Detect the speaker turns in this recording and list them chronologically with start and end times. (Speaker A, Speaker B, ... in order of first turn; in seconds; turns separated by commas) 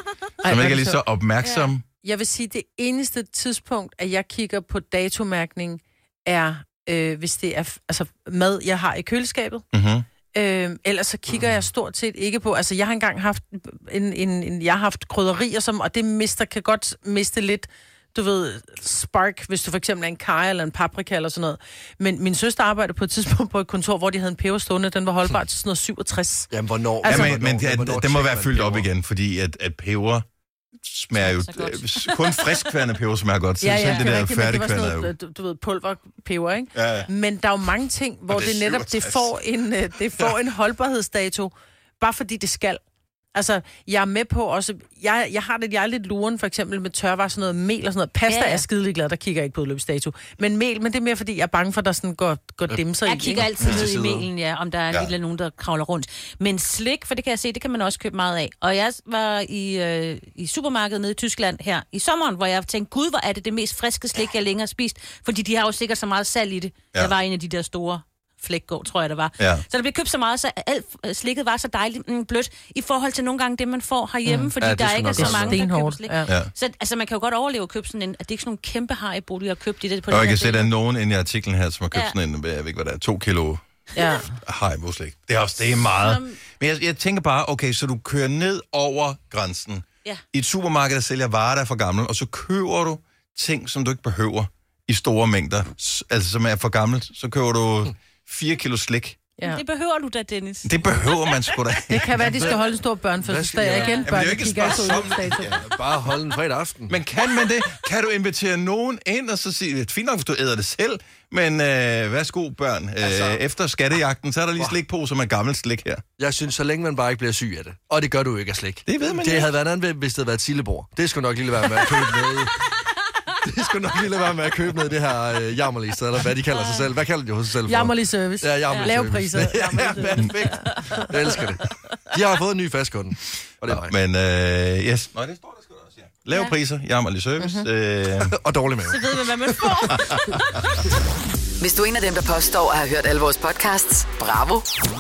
Speaker A: 0.4-1.0, Speaker B: 0.4-1.8, Speaker C: 1.4-1.7, Speaker A: 2.0-9.7, Speaker B: 9.7-10.1, Speaker A: 10.3-26.5, Speaker D: 26.5-28.9, Speaker A: 27.0-27.4, Speaker B: 27.1-30.3, Speaker B: 30.8-35.1, Speaker C: 31.2-32.7, Speaker A: 33.6-42.8, Speaker C: 33.8-34.1, Speaker B: 36.7-37.1, Speaker B: 38.3-39.3, Speaker A: 43.4-53.5, Speaker C: 48.3-48.6, Speaker C: 53.0-80.7, Speaker D: 53.6-54.3, Speaker B: 53.6-53.9, Speaker B: 69.4-69.6, Speaker D: 74.6-75.6, Speaker A: 75.2-76.3, Speaker B: 80.1-83.6, Speaker A: 84.0-84.3, Speaker B: 84.3-99.2, Speaker C: 86.0-86.4, Speaker C: 99.4-101.1, Speaker B: 100.6-102.4, Speaker A: 101.9-105.5, Speaker D: 102.2-102.5, Speaker D: 103.2-104.7, Speaker C: 103.7-104.1, Speaker B: 104.0-105.7, Speaker D: 105.6-107.0, Speaker B: 106.9-116.0, Speaker D: 113.0-113.4, Speaker D: 116.2-122.7, Speaker B: 118.9-119.5, Speaker D: 123.4-133.9, Speaker C: 126.5-126.9, Speaker A: 127.7-130.8, Speaker B: 133.6-138.3, Speaker A: 137.4-137.7, Speaker D: 138.3-139.7, Speaker C: 138.9-140.6, Speaker E: 141.6-144.7